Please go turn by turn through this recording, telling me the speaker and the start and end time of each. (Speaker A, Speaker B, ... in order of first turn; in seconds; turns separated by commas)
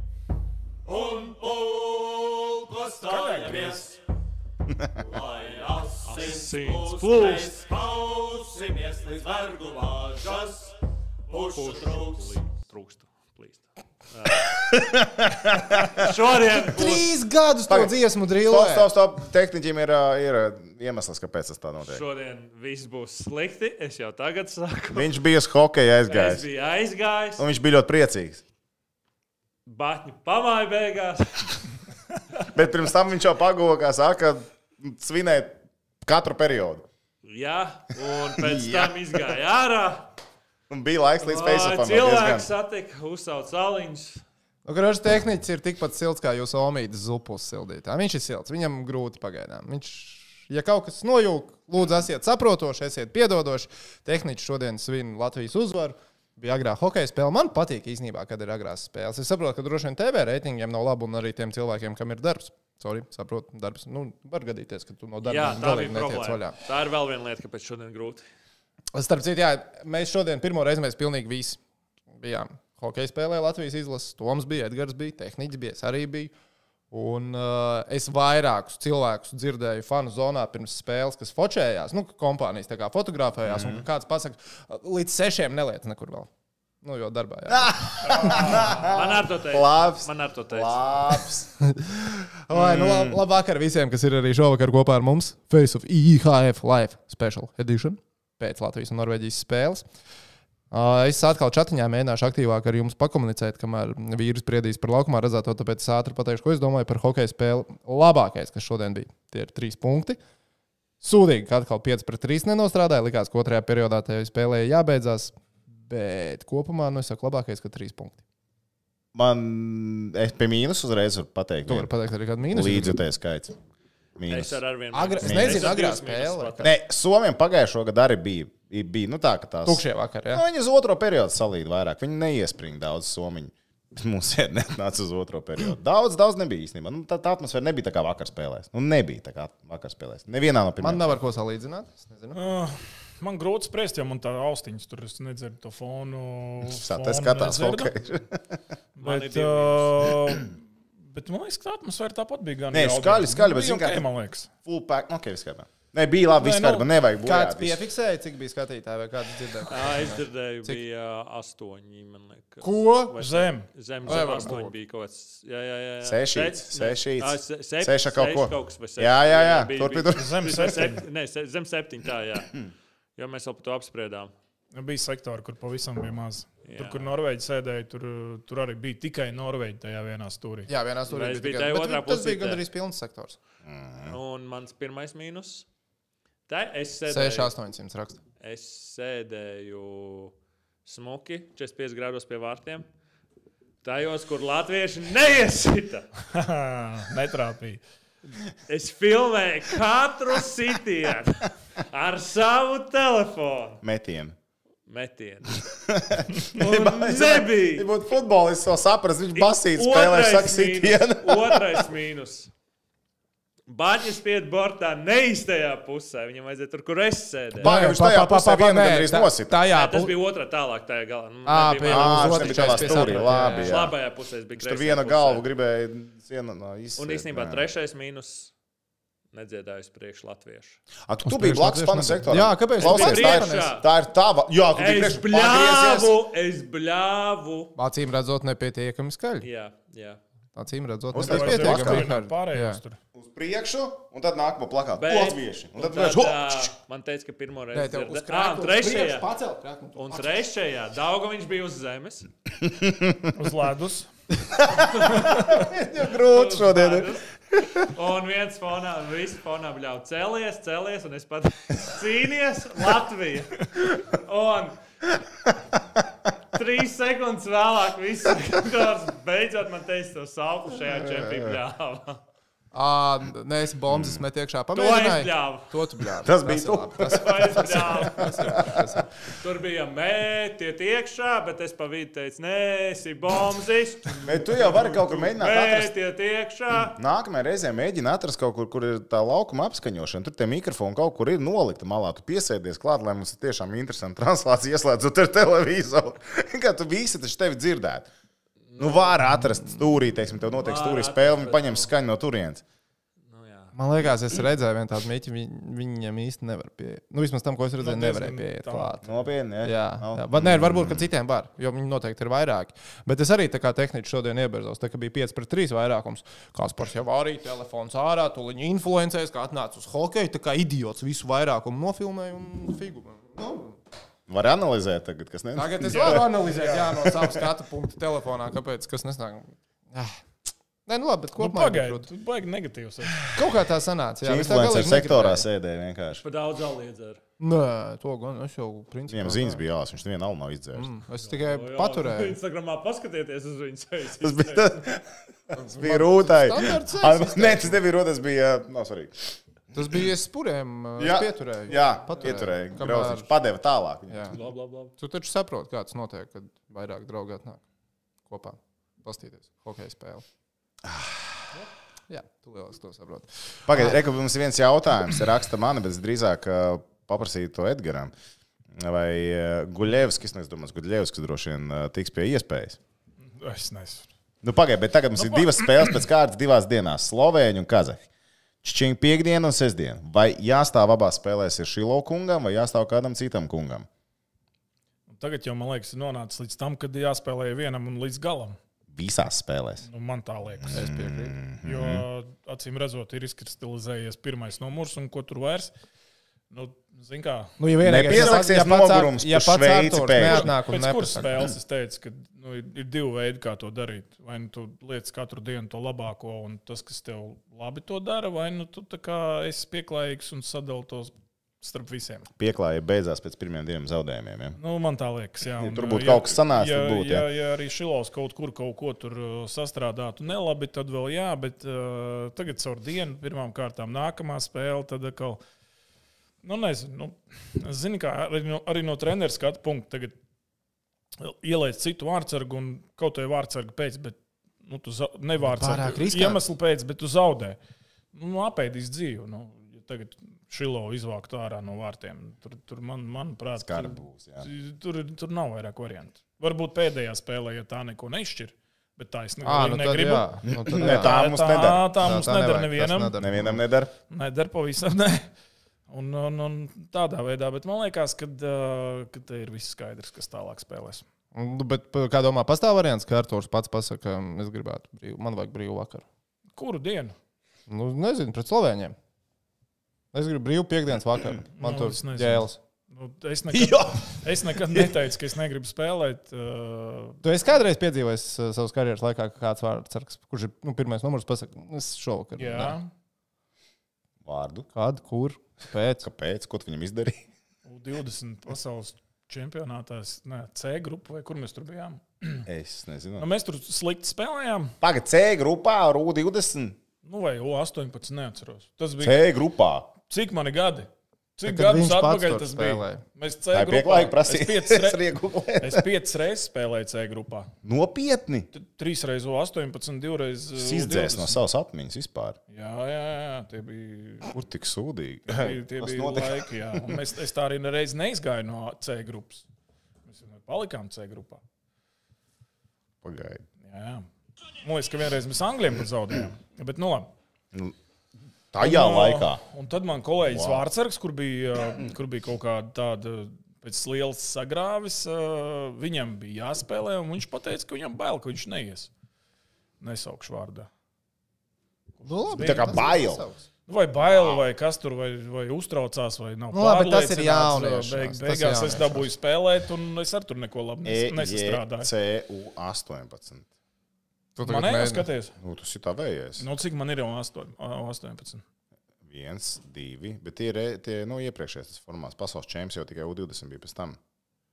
Speaker A: 0.9-4.0, Speaker B: 3.5-3.8, Speaker A: 5.0-10.7, Speaker C: 6.1-7.6, Speaker A: 11.3-12.5, Speaker C: 11.6-14.4, Speaker D: 14.5-16.1, Speaker C: 15.9-17.0, Speaker E: 16.6-18.9, Speaker D: 17.7-22.0, Speaker C: 21.9-25.1, Speaker D: 24.9-26.5, Speaker C: 26.1-27.4, Speaker D: 27.4-28.4, Speaker C: 29.7-31.6, Speaker D: 32.5-36.9, Speaker C: 37.2-40.1, Speaker D: 38.4-39.2, Speaker D: 40.7-42.5, Speaker C: 41.2-44.2, Speaker E: 44.6-66.6, Speaker C: 65.2-68.2, Speaker E: 68.9-71.6, Speaker E: 72.2-76.3, Speaker E: 76.9-86.3, Speaker D: 83.4-83.8, Speaker E: 86.8-88.0, Speaker D: 87.5-91.5, Speaker B: 88.1-88.7, Speaker C: 88.2-90.8, Speaker E: 91.6-99.8, Speaker D: 92.5-93.2, Speaker E: 100.7-110.2, Speaker E: 111.0-118.2, Speaker D: 119.1-121.9, Speaker E: 121.7-123.0, Speaker D: 122.5-123.6, Speaker D: 124.2-124.6, Speaker C: 124.3-126.7, Speaker E: 124.9-126.7, Speaker D: 125.2-125.8, Speaker D: 126.6-141.2, Speaker E: 129.7-130.4, Speaker E: 140.8-142.4, Speaker B: 142.3-147.9, Speaker D: 146.6-148.6, Speaker B: 149.0-154.5, Speaker C: 149.0-150.0, Speaker D: 152.7-154.1, Speaker D: 154.7-157.8, Speaker B: 156.3-156.9, Speaker E: 157.2-160.8, Speaker C: 159.7-172.7, Speaker E: 162.6-163.2, Speaker B: 163.2-163.7, Speaker E: 164.1-164.8, Speaker D: 166.0-170.4, Speaker B: 170.2-171.0, Speaker C: 173.2-174.3, Speaker B: 174.7-180.7, Speaker C: 176.7-177.1, Speaker E: 180.7-183.4, Speaker C: 181.1-182.6, Speaker D: 183.7-184.2, Speaker C: 184.1-185.7, Speaker C: 186.5-187.5, Speaker E: 187.1-188.2, Speaker C: 188.4-190.3, Speaker C: 190.8-192.9, Speaker C: 193.8-196.1, Speaker B: 196.3-197.8, Speaker C: 198.7-203.8, Speaker D: 203.8-204.3, Speaker C: 204.9-205.6, Speaker D: 205.9-211.9, Speaker C: 206.5-207.9, Speaker C: 209.3-212.5, Speaker C: 213.7-217.7, Speaker D: 217.6-219.6, Speaker E: 217.6-220.2, Speaker C: 219.7-225.4, Speaker E: 221.5-223.9, Speaker D: 221.8-224.0, Speaker D: 224.6-227.7, Speaker C: 227.0-228.5, Speaker C: 229.3-230.8, Speaker D: 231.1-236.1, Speaker E: 231.2-233.7, Speaker C: 232.8-233.9, Speaker C: 234.8-237.7, Speaker E: 237.8-239.5, Speaker C: 239.4-240.2, Speaker E: 240.6-242.8, Speaker D: 241.1-242.0, Speaker B: 241.2-243.0, Speaker D: 243.1-246.7, Speaker C: 244.9-249.3, Speaker E: 247.7-250.4, Speaker C: 250.0-252.3, Speaker D: 252.7-253.2, Speaker B: 253.3-254.1, Speaker D: 254.6-257.6, Speaker C: 254.7-255.4, Speaker C: 256.1-257.2, Speaker C: 257.8-264.8, Speaker C: 266.6-272.2, Speaker E: 270.9-271.2, Speaker E: 272.7-279.1, Speaker D: 273.9-274.2, Speaker C: 274.8-275.7, Speaker D: 276.2-278.8, Speaker C: 277.1-278.6, Speaker C: 279.3-287.0, Speaker D: 284.2-285.9, Speaker D: 286.7-298.1, Speaker C: 298.7-299.2, Speaker D: 298.8-302.6, Speaker C: 300.6-301.9, Speaker C: 303.3-303.7, Speaker E: 303.7-309.1, Speaker B: 307.8-309.0, Speaker D: 309.0-311.1, Speaker E: 309.6-323.8, Speaker D: 324.3-326.4, Speaker E: 325.5-330.1, Speaker B: 326.0-326.9, Speaker D: 327.0-327.4, Speaker E: 330.9-332.1, Speaker B: 331.4-333.3, Speaker E: 333.3-335.5, Speaker D: 334.2-336.2, Speaker C: 336.2-337.2, Speaker E: 337.4-339.6, Speaker D: 339.1-340.9, Speaker E: 340.7-342.4, Speaker C: 341.2-344.8, Speaker D: 344.2-345.1, Speaker E: 345.5-347.8, Speaker D: 345.8-349.4, Speaker E: 349.7-353.3, Speaker D: 351.0-354.4, Speaker E: 354.1-354.4, Speaker C: 354.3-354.9, Speaker E: 355.0-357.6, Speaker E: 358.3-360.2, Speaker D: 360.9-361.2, Speaker E: 362.1-364.0, Speaker D: 363.7-368.1, Speaker D: 368.7-372.8, Speaker B: 373.2-374.1, Speaker D: 374.4-378.1, Speaker B: 375.2-376.0, Speaker D: 378.6-383.9, Speaker B: 385.1-388.6, Speaker D: 388.9-389.9, Speaker B: 389.8-390.8, Speaker D: 390.6-392.1, Speaker E: 390.7-391.4, Speaker B: 391.6-395.7, Speaker B: 396.5-397.6, Speaker E: 397.6-401.3, Speaker D: 397.8-400.5, Speaker B: 398.1-398.4, Speaker B: 400.2-412.3, Speaker D: 401.3-401.6, Speaker D: 412.4-414.6, Speaker B: 414.6-425.4, Speaker D: 415.6-417.3, Speaker B: 426.4-430.2, Speaker B: 431.2-437.6, Speaker E: 435.4-436.4, Speaker B: 438.1-453.1, Speaker D: 443.6-444.5, Speaker E: 449.4-451.2, Speaker D: 450.5-451.9, Speaker E: 452.0-453.6, Speaker D: 453.2-453.9, Speaker B: 454.1-455.3, Speaker B: 455.9-461.1, Speaker E: 461.3-466.1, Speaker B: 466.6-467.1, Speaker E: 467.7-469.0, Speaker E: 470.1-472.6, Speaker B: 471.6-477.2, Speaker D: 473.5-474.9, Speaker E: 477.2-482.8, Speaker B: 482.4-482.9, Speaker D: 484.2-484.7, Speaker E: 484.7-486.1, Speaker D: 486.0-487.2, Speaker B: 487.6-492.5, Speaker D: 492.5-493.3, Speaker B: 493.2-494.7, Speaker D: 494.8-496.8, Speaker B: 497.0-499.3, Speaker D: 499.0-499.9, Speaker B: 500.1-505.0, Speaker E: 501.5-503.0, Speaker D: 503.5-505.9, Speaker B: 505.6-507.5, Speaker D: 507.6-508.5, Speaker B: 508.5-511.4, Speaker D: 510.6-512.4, Speaker B: 512.5-514.3, Speaker D: 514.3-517.0, Speaker B: 515.3-519.5, Speaker B: 520.1-521.4, Speaker D: 523.0-523.4, Speaker B: 523.6-524.1, Speaker B: 524.6-527.1, Speaker D: 528.5-529.4, Speaker B: 528.6-538.9, Speaker D: 530.3-530.6, Speaker B: 539.8-540.7, Speaker B: 542.0-542.9, Speaker E: 542.0-543.4, Speaker D: 542.4-543.2, Speaker B: 543.7-551.9, Speaker D: 544.0-544.4, Speaker E: 546.5-549.1, Speaker D: 550.9-553.5, Speaker E: 554.4-555.1, Speaker B: 554.4-555.3, Speaker D: 555.4-556.5, Speaker B: 556.4-558.4, Speaker D: 559.0-564.0